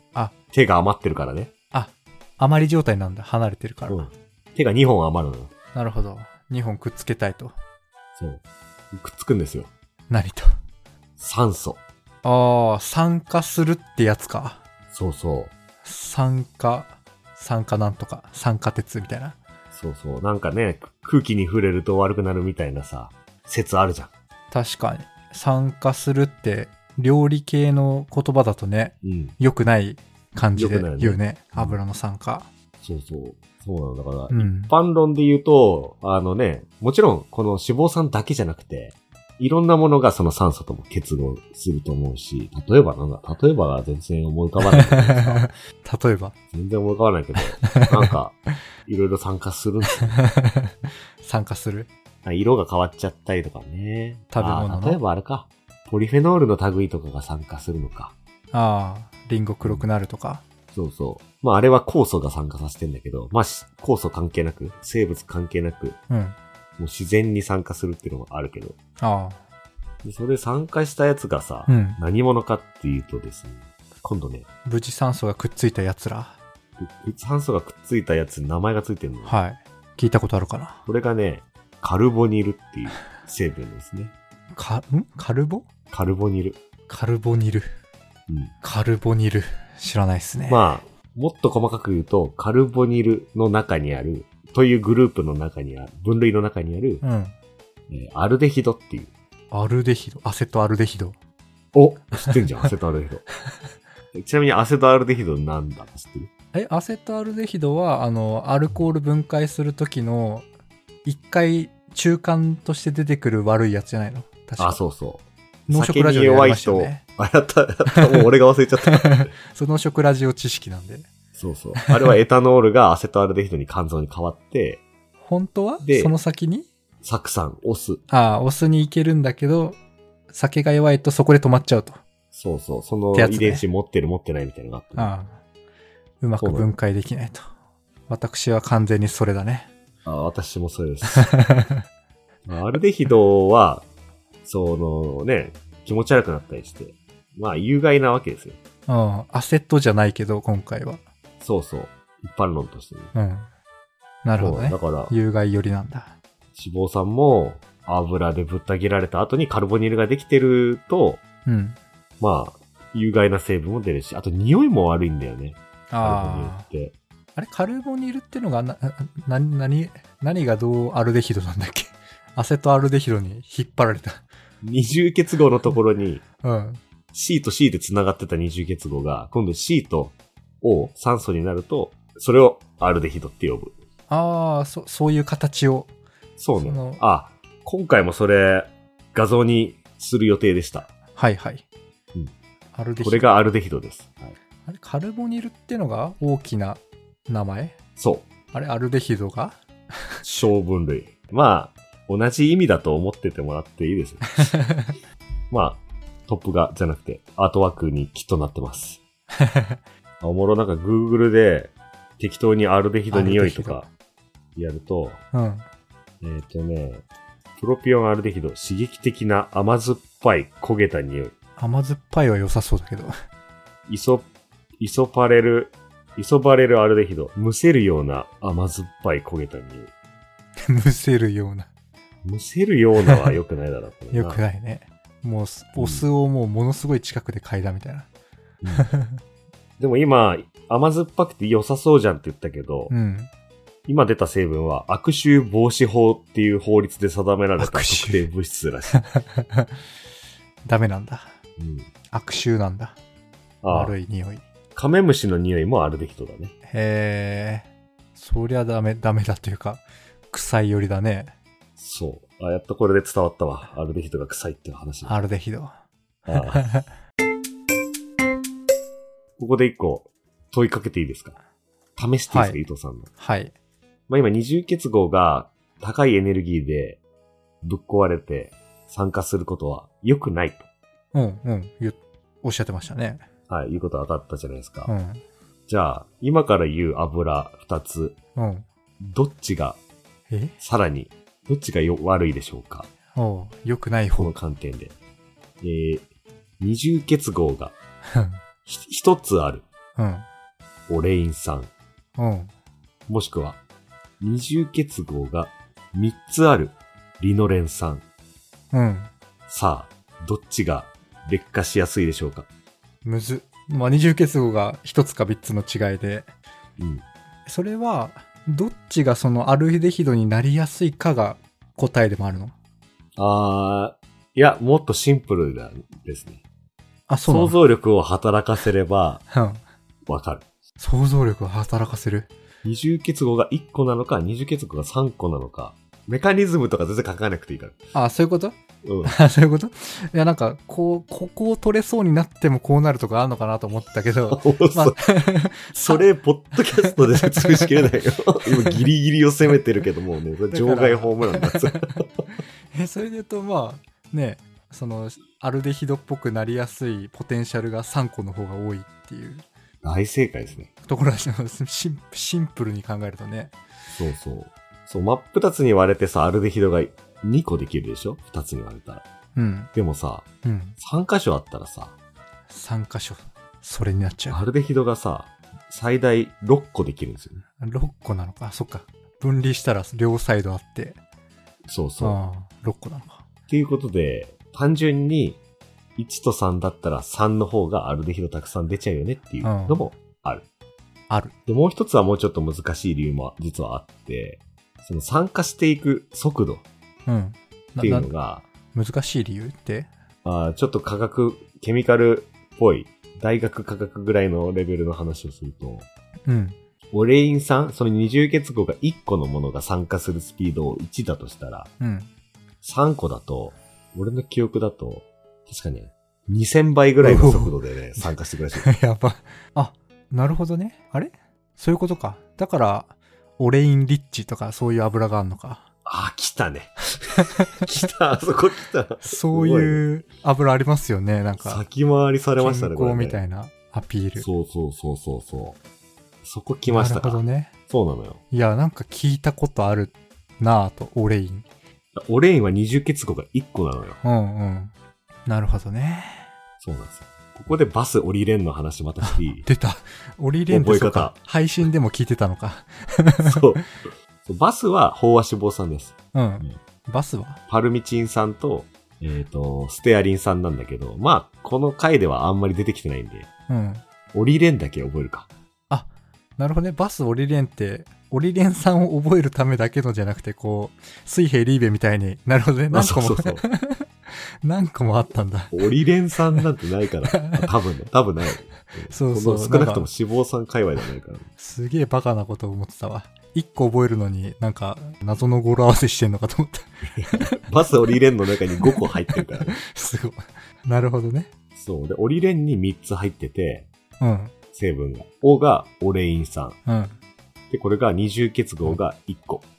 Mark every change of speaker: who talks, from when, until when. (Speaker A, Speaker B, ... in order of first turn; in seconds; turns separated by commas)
Speaker A: 0.5-1.5, Speaker B: 1.7-4.1, Speaker A: 3.9-5.5, Speaker B: 5.7-7.6, Speaker A: 8.2-9.7, Speaker B: 10.1-10.5, Speaker A: 11.2-11.8, Speaker B: 12.2-14.6, Speaker A: 14.9-15.5, Speaker B: 15.8-19.4, Speaker A: 19.7-24.1, Speaker B: 24.5-32.5, Speaker A: 29.0-29.3, Speaker A: 30.6-31.8, Speaker A: 32.8-45.5, Speaker B: 34.3-34.7, Speaker B: 44.6-46.3, Speaker A: 46.5-50.2, Speaker B: 47.6-48.1, Speaker B: 49.9-51.9, Speaker A: 52.2-58.1, Speaker B: 54.3-55.0, Speaker B: 58.5-60.4, Speaker A: 60.7-66.0, Speaker B: 66.1-66.4, Speaker A: 66.8-68.8, Speaker B: 69.0-69.4, Speaker A: 70.0-74.5, Speaker B: 71.7-72.0, Speaker B: 74.7-76.4, Speaker A: 76.8-79.3, Speaker B: 79.2-80.8, Speaker A: 80.9-84.1, Speaker B: 84.5-85.7, Speaker A: 85.9-86.6, Speaker B: 86.9-87.7, Speaker A: 88.3-88.5, Speaker B: 88.6-90.7, Speaker A: 90.5-97.0, Speaker B: 97.0-97.3, Speaker A: 97.9-99.1, Speaker B: 99.5-101.2, Speaker A: 101.7-103.2, Speaker A: 104.1-106.3, Speaker B: 106.5-110.5, Speaker B: 111.0-114.8, Speaker A: 114.6-119.3, Speaker B: 115.7-117.0, Speaker B: 117.9-118.2, Speaker B: 118.9-121.1, Speaker A: 121.3-124.8, Speaker B: 121.8-122.1, Speaker B: 125.2-126.7, Speaker A: 125.8-126.1, Speaker A: 127.0-128.0, Speaker B: 128.1-129.8, Speaker B: 130.3-132.0, Speaker A: 132.3-135.1, Speaker B: 133.1-133.6, Speaker B: 135.0-135.4, Speaker B: 136.2-137.5, Speaker A: 136.4-136.7, Speaker B: 138.1-139.7, Speaker A: 140.1-141.3, Speaker B: 141.1-141.8, Speaker A: 142.5-143.9, Speaker A: 144.4-148.6, Speaker B: 148.9-151.0, Speaker A: 151.4-153.1, Speaker B: 153.1-153.5, Speaker B: 154.2-156.2, Speaker A: 154.4-155.1, Speaker A: 156.6-161.2, Speaker B: 161.5-161.8, Speaker A: 162.2-166.9, Speaker B: 165.9-166.7, Speaker B: 167.4-174.2, Speaker A: 174.6-176.2, Speaker B: 176.4-176.8, Speaker A: 177.1-183.8, Speaker B: 184.1-185.9, Speaker A: 186.4-190.9, Speaker B: 186.6-187.0, Speaker B: 191.2-191.6, Speaker B: 192.7-193.3, Speaker A: 193.0-194.3, Speaker B: 194.7-197.8, Speaker A: 198.0-198.3, Speaker B: 198.5-199.6, Speaker A: 200.2-204.5, Speaker B: 204.4-204.9, Speaker A: 205.5-209.0, Speaker B: 209.4-209.8, Speaker A: 210.2-213.9, Speaker B: 213.1-213.8, Speaker A: 214.6-215.2, Speaker B: 215.3-215.7, Speaker A: 216.2-217.1, Speaker A: 217.6-221.3, Speaker B: 221.6-223.2, Speaker A: 223.9-224.3, Speaker A: 224.8-229.9, Speaker B: 230.7-231.7, Speaker A: 232.2-234.4, Speaker B: 234.1-238.1, Speaker A: 235.8-236.1, Speaker A: 238.6-238.9, Speaker B: 238.7-239.2, Speaker A: 239.8-242.9, Speaker B: 242.9-243.3, Speaker A: 243.9-249.0, Speaker B: 247.6-248.3, Speaker B: 249.0-249.7, Speaker B: 250.7-251.3, Speaker A: 251.6-251.9, Speaker B: 252.1-253.0, Speaker A: 253.6-253.9, Speaker B: 253.7-254.4, Speaker A: 254.8-256.5, Speaker B: 256.7-261.3, Speaker A: 261.8-265.1, Speaker B: 265.1-265.7, Speaker A: 266.3-266.6, Speaker B: 266.3-266.9, Speaker A: 269.4-271.4, Speaker A: 272.0-273.1, Speaker B: 272.3-272.6, Speaker B: 273.2-273.5, Speaker A: 274.1-277.0, Speaker A: 277.6-280.7, Speaker B: 281.1-283.2, Speaker A: 283.5-284.9, Speaker B: 284.9-285.2, Speaker A: 285.7-288.2, Speaker B: 288.4-288.7, Speaker A: 289.0-289.8, Speaker B: 290.3-290.6, Speaker A: 290.6-292.9, Speaker B: 293.1-294.3, Speaker A: 294.2-294.9, Speaker A: 295.6-296.1, Speaker A: 296.6-297.8, Speaker B: 298.1-298.4, Speaker A: 298.7-299.6, Speaker B: 300.0-300.3, Speaker A: 300.9-301.7, Speaker B: 302.2-302.5, Speaker A: 303.1-303.6, Speaker A: 304.2-308.0, Speaker B: 308.7-309.1, Speaker A: 309.5-312.5, Speaker B: 313.1-316.3, Speaker A: 316.8-317.0, Speaker B: 317.5-322.5, Speaker A: 323.2-326.4, Speaker B: 327.1-327.6, Speaker A: 327.2-329.2, Speaker B: 329.3-329.6, Speaker A: 330.1-330.4, Speaker B: 330.8-332.3, Speaker A: 332.6-337.8, Speaker B: 337.9-346.1, Speaker A: 338.8-339.2, Speaker A: 344.3-345.0, Speaker A: 345.8-352.1, Speaker B: 346.7-347.7, Speaker B: 348.6-348.9, Speaker B: 350.5-352.0, Speaker B: 352.7-359.4, Speaker A: 359.8-360.7, Speaker B: 360.8-363.6, Speaker A: 363.9-369.0, Speaker B: 369.4-369.7, Speaker A: 369.8-370.3, Speaker B: 370.4-370.8, Speaker A: 370.8-371.9, Speaker B: 372.5-374.4, Speaker A: 374.3-377.4, Speaker B: 377.6-381.0, Speaker A: 381.7-382.2, Speaker B: 382.0-383.2, Speaker A: 383.5-385.4, Speaker A: 386.0-390.4, Speaker B: 389.4-389.8, Speaker A: 391.5-396.6, Speaker B: 397.1-398.1, Speaker A: 397.8-398.4, Speaker B: 398.7-399.9, Speaker A: 400.2-405.9, Speaker B: 406.3-406.6, Speaker A: 406.9-411.7, Speaker B: 411.8-412.1, Speaker A: 412.6-418.7, Speaker B: 417.0-418.1, Speaker B: 418.6-425.7, Speaker A: 425.9-429.8, Speaker B: 427.2-427.7, Speaker B: 429.0-431.6, Speaker A: 431.4-433.2, Speaker B: 432.4-434.3, Speaker A: 434.2-435.6, Speaker A: 436.2-438.2, Speaker B: 436.7-437.5, Speaker B: 438.3-441.5, Speaker A: 441.9-444.0, Speaker B: 444.0-444.7, Speaker B: 445.3-446.3, Speaker A: 446.6-449.5, Speaker B: 449.0-453.6, Speaker A: 450.5-451.2, Speaker A: 453.2-456.6, Speaker B: 456.1-457.4, Speaker A: 457.5-463.3, Speaker B: 463.5-463.9, Speaker A: 464.1-465.3, Speaker B: 465.7-475.7, Speaker A: 472.7-473.4, Speaker A: 475.5-481.3, Speaker B: 477.1-477.5, Speaker B: 478.9-479.9, Speaker B: 481.4-487.5, Speaker A: 486.9-489.6, Speaker B: 488.6-491.3, Speaker A: 491.6-493.7, Speaker B: 494.0-494.3, Speaker A: 494.5-496.6, Speaker B: 496.7-497.0, Speaker A: 497.5-499.4